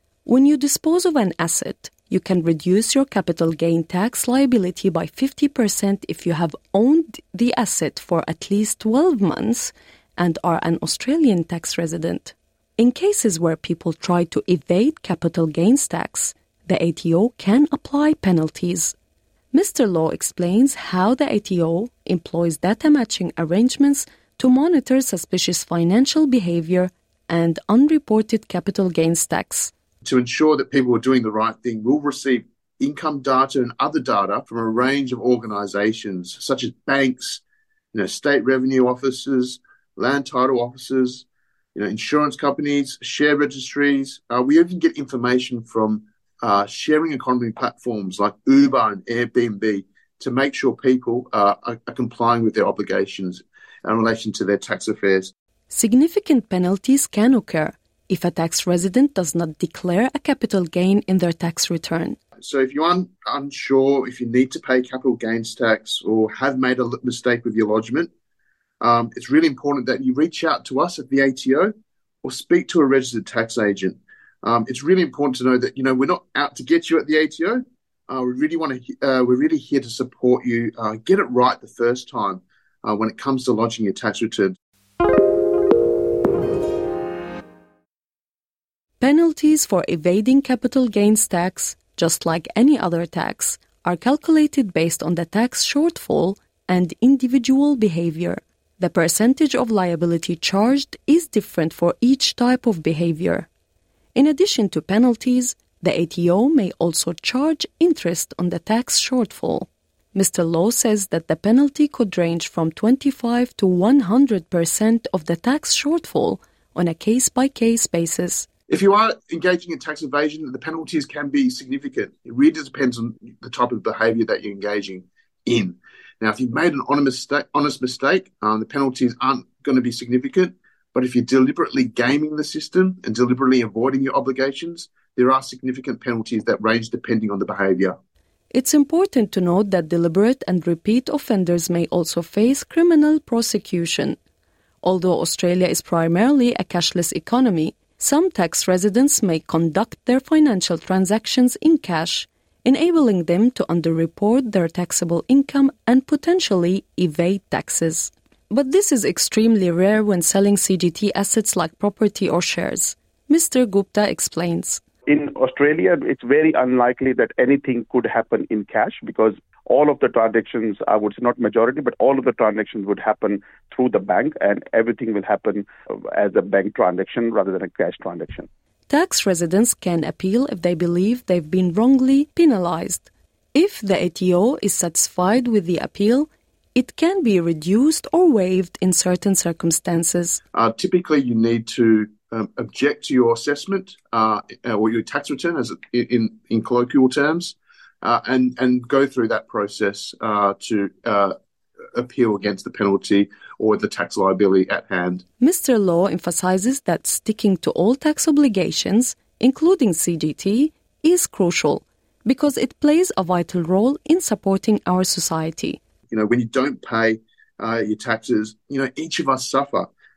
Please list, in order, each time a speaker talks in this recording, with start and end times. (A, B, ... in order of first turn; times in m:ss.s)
0:00.2-0:18.9 A
0:19.5-0:29.7 A
0:30.0-0:37.4 B
0:37.9-0:55.3 B
0:55.7-1:02.2 A
1:02.4-1:08.1 B
1:08.8-1:11.7 B
1:12.2-1:24.6 B
1:29.0-1:43.5 A
1:44.1-1:58.5 A
1:58.7-2:17.9 B
2:18.5-2:24.2 A
2:24.8-2:44.8 A
2:45.1-2:58.5 C
2:58.9-3:10.4 A
3:10.5-3:21.3 B
3:21.9-3:25.2 B
3:25.4-3:35.8 A
3:36.1-3:39.9 B